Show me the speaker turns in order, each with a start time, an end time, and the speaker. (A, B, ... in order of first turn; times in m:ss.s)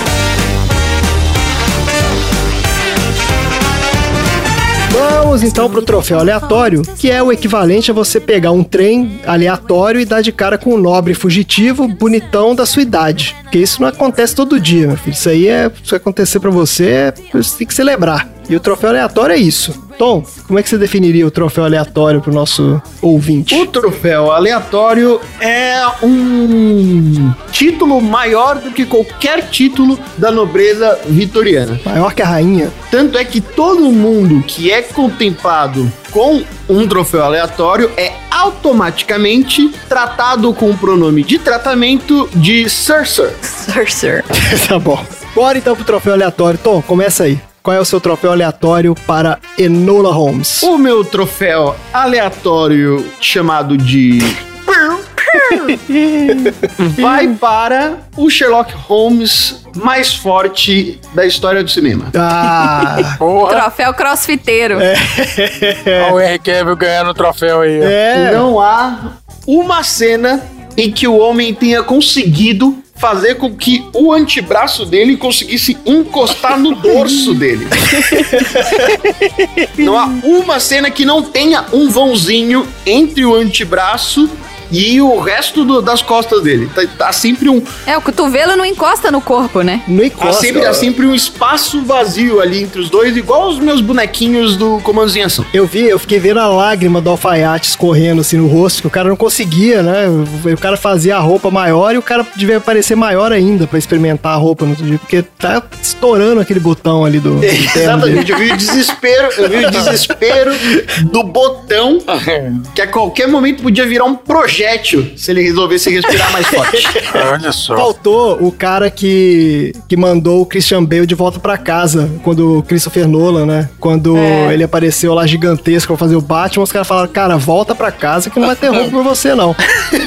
0:04.9-0:23.7 A
0:23.5-0:31.8 B
0:31.8-0:32.8 A
0:32.9-0:43.4 B
0:43.4-0:44.3 C
0:44.3-0:50.7 A
0:50.6-0:55.8 B
0:55.7-0:57.3 A
0:56.8-1:02.1 B
1:02.1-1:03.2 A
1:03.2-1:03.7 D
1:03.4-1:04.9 C
1:04.8-1:06.2 A
1:06.0-1:08.0 D
1:07.8-1:08.5 A
1:08.1-1:17.9 B
1:17.9-1:19.8 A
1:19.8-1:27.7 B
1:27.9-1:29.8 C
1:29.8-1:30.9 A
1:30.2-1:35.5 B
1:35.5-1:48.4 A
1:47.4-1:52.1 B
1:49.4-1:50.8 A
1:52.1-1:52.7 D
1:52.7-1:56.9 B
1:56.6-2:09.6 A
1:57.0-1:57.9 D
2:04.1-2:04.6 C